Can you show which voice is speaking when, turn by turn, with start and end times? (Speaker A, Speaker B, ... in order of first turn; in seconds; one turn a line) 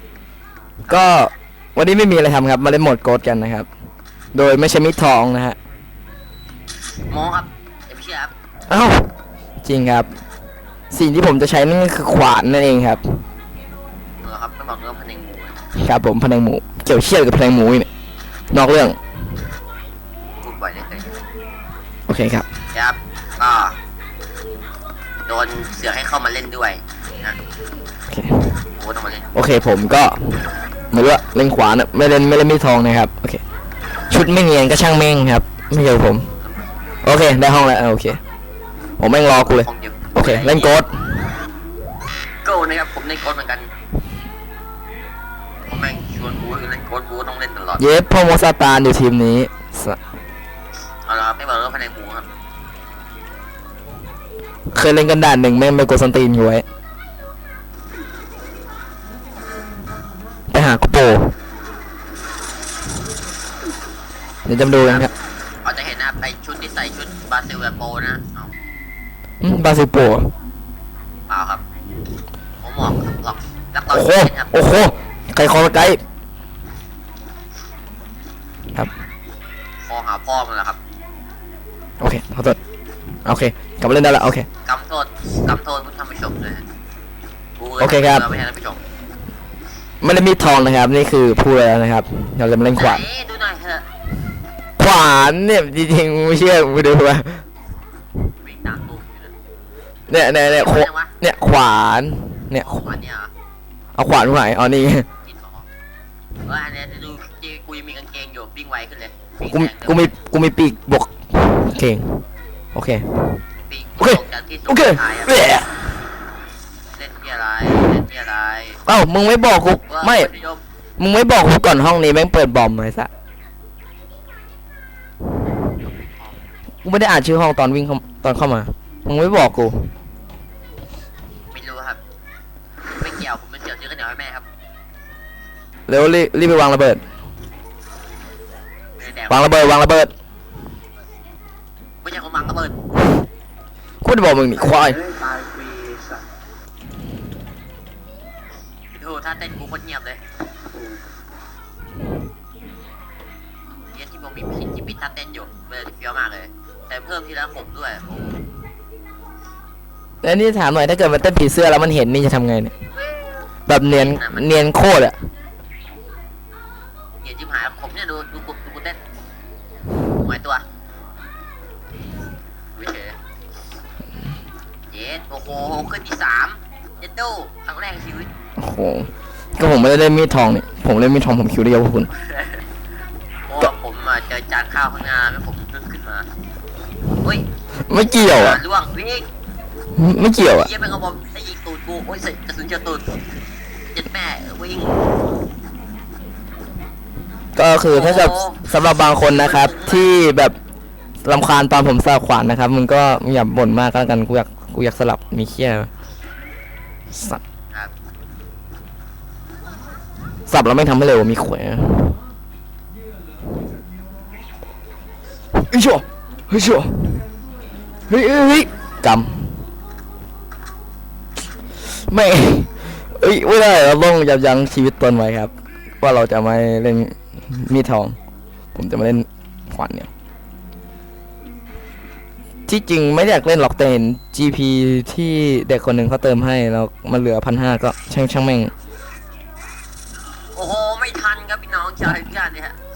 Speaker A: 0.8-3.7
Speaker A: 4.3-5.6
Speaker B: 7.1-8.3
Speaker A: 8.7-9.1
Speaker A: 9.6-10.1
Speaker A: 10.9-13.2
Speaker B: 14.2-15.6
Speaker A: 15.8-17.9
Speaker A: 18.5-19.0
Speaker B: 20.4-21.1
Speaker A: 22.1-22.5
Speaker B: 22.7-23.8
Speaker B: 25.2-27.4
Speaker A: 28.1-28.6
Speaker B: 28.8-29.3
Speaker A: 29.3-33.4
Speaker A: 34.1-36.3
Speaker A: 37.0-38.2
Speaker A: 39.0-41.0
Speaker B: 39.4-40.8
Speaker B: 42.4-43.7
Speaker B: 45.7-47.8
Speaker A: 47.8-50.0
Speaker B: 51.0-52.3
Speaker A: 54.7-56.6
Speaker A: 60.5-61.3
Speaker A: 64.5-65.1
Speaker B: 65.6-68.5
Speaker A: 69.4-70.3
Speaker B: 71.3-71.6
Speaker B: 72.6-74.5
Speaker A: 73.9-76.0
Speaker B: 79.8-80.8
Speaker A: 82.0-82.6
Speaker A: 83.2-84.5
Speaker B: 84.6-86.6
Speaker B: 87.6-88.8
Speaker A: 87.8-88.2
Speaker A: 90.0-93.0
Speaker B: 92.8-93.8
Speaker A: 94.8-97.4
Speaker B: 98.4-99.3
Speaker A: 100.1-102.9
Speaker B: 100.4-101.1
Speaker B: 102.6-103.3
Speaker A: 104.0-105.1
Speaker B: 105.2-105.7
Speaker B: 106.4-110.1
Speaker A: 109.5-112.2
Speaker A: 112.7-113.2
Speaker B: 113.7-115.3
Speaker A: 114.0-115.8
Speaker B: 116.9-118.8
Speaker A: 118.8-120.3
Speaker B: 119.9-120.6
Speaker A: 121.0-123.1
Speaker B: 125.7-126.4
Speaker A: 126.8-129.9
Speaker B: 131.5-132.0
Speaker B: 133.0-134.4
Speaker A: 135.9-137.0
Speaker B: 139.0-139.7
Speaker A: 139.3-140.1
Speaker B: 142.0-142.8
Speaker A: 144.0-145.0
Speaker C: 144.6-146.2
Speaker B: 148.9-150.2
Speaker C: 150.7-151.0
Speaker B: 153.9-158.4
Speaker A: 160.2-162.7
Speaker A: 163.7-165.2
Speaker B: 163.9-164.5
Speaker B: 167.2-169.0
Speaker B: 170.2-170.6
Speaker B: 172.8-173.2
Speaker B: 174.9-178.3
Speaker A: 178.6-182.1
Speaker B: 182.1-182.6
Speaker B: 183.5-186.2
Speaker B: 187.2-189.3
Speaker A: 187.9-188.6
Speaker A: 189.9-190.7
Speaker B: 190.4-193.1
Speaker B: 193.9-195.0
Speaker A: 197.6-200.5
Speaker B: 197.9-200.1
Speaker A: 201.2-205.9
Speaker A: 207.1-207.4
Speaker A: 210.5-212.2
Speaker A: 215.5-217.2
Speaker A: 218.1-219.6
Speaker A: 221.9-228.2
Speaker A: 228.7-230.1
Speaker A: 232.7-238.7
Speaker B: 240.5-242.8